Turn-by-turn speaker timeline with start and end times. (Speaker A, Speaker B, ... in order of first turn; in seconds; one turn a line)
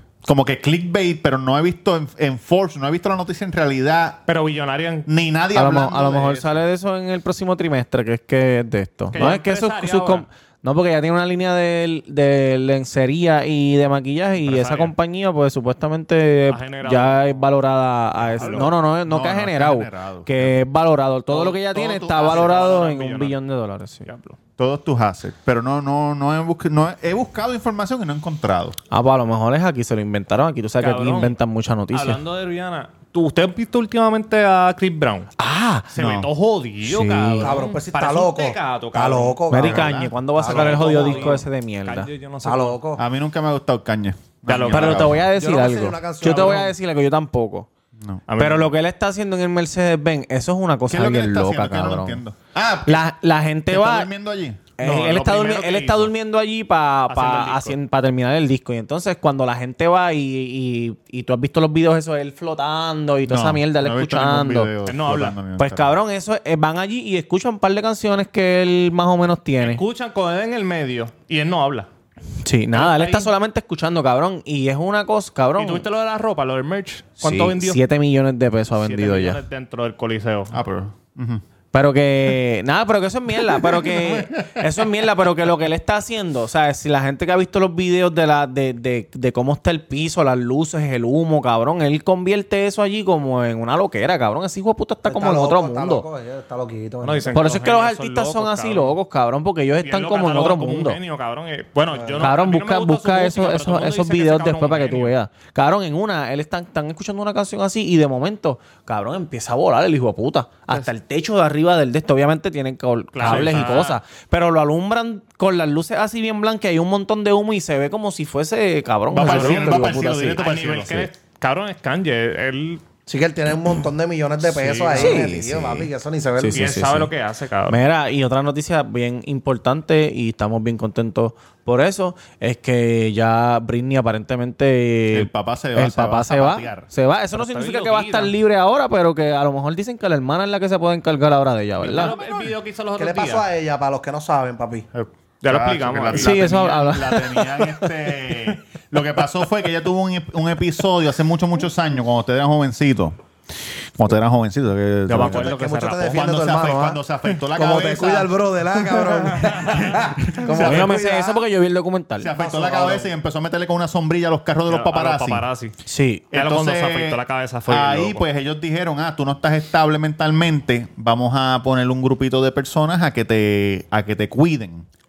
Speaker A: 0.2-4.2
Speaker B: 4.3-5.1
Speaker A: 5.1-6.6
Speaker C: 5.5-24.1
Speaker B: 9.1-10.3
Speaker B: 14.4-14.9
Speaker B: 16.5-17.5
Speaker B: 18.2-18.7
Speaker A: 18.4-20.6
Speaker B: 21.3-23.4
Speaker B: 24.1-24.4
Speaker A: 24.6-28.8
Speaker C: 28.9-32.2
Speaker B: 30.8-31.4
Speaker B: 31.9-35.3
Speaker C: 35.4-35.9
Speaker B: 35.9-39.4
Speaker A: 36.0-36.3
Speaker C: 36.8-37.6
Speaker D: 37.4-41.4
Speaker C: 39.5-42.1
Speaker A: 39.5-40.1
Speaker B: 40.5-42.8
Speaker D: 42.4-43.0
Speaker A: 43.0-45.3
Speaker B: 44.5-45.1
Speaker C: 44.7-47.7
Speaker D: 45.3-46.7
Speaker B: 46.2-46.6
Speaker B: 48.3-48.7
Speaker C: 48.4-52.2
Speaker A: 50.9-53.1
Speaker C: 52.9-54.1
Speaker A: 53.7-54.7
Speaker C: 54.8-64.7
Speaker B: 54.8-56.1
Speaker B: 57.1-57.8
Speaker A: 63.3-66.0
Speaker B: 64.9-65.4
Speaker C: 65.6-69.8
Speaker B: 69.6-71.9
Speaker C: 72.4-75.8
Speaker B: 72.7-73.3
Speaker B: 75.6-77.8
Speaker C: 77.2-79.4
Speaker B: 78.8-80.5
Speaker A: 80.5-81.4
Speaker C: 81.7-96.1
Speaker A: 83.6-84.7
Speaker D: 95.1-97.4
Speaker B: 97.0-99.0
Speaker C: 97.3-101.0
Speaker B: 99.8-105.2
Speaker D: 101.9-102.3
Speaker C: 102.2-120.4
Speaker B: 113.1-114.0
Speaker A: 113.2-113.8
Speaker A: 119.1-121.1
Speaker B: 119.2-119.8
Speaker B: 120.4-122.8
Speaker D: 123.1-126.7
Speaker B: 124.5-125.2
Speaker C: 124.9-127.1
Speaker B: 126.5-127.8
Speaker C: 127.7-142.2
Speaker A: 135.1-136.9
Speaker B: 137.3-138.3
Speaker B: 141.8-143.5
Speaker D: 143.0-144.9
Speaker A: 144.9-153.2
Speaker B: 145.4-146.5
Speaker C: 146.1-147.7
Speaker A: 154.0-155.6
Speaker B: 155.1-156.2
Speaker D: 155.2-157.0
Speaker A: 156.1-158.3
Speaker D: 157.5-161.4
Speaker B: 159.4-159.9
Speaker A: 159.7-161.0
Speaker C: 160.4-162.3
Speaker A: 162.2-165.5
Speaker D: 162.3-163.1
Speaker B: 164.7-165.7
Speaker C: 165.9-166.2
Speaker A: 166.3-174.9
Speaker B: 166.3-168.2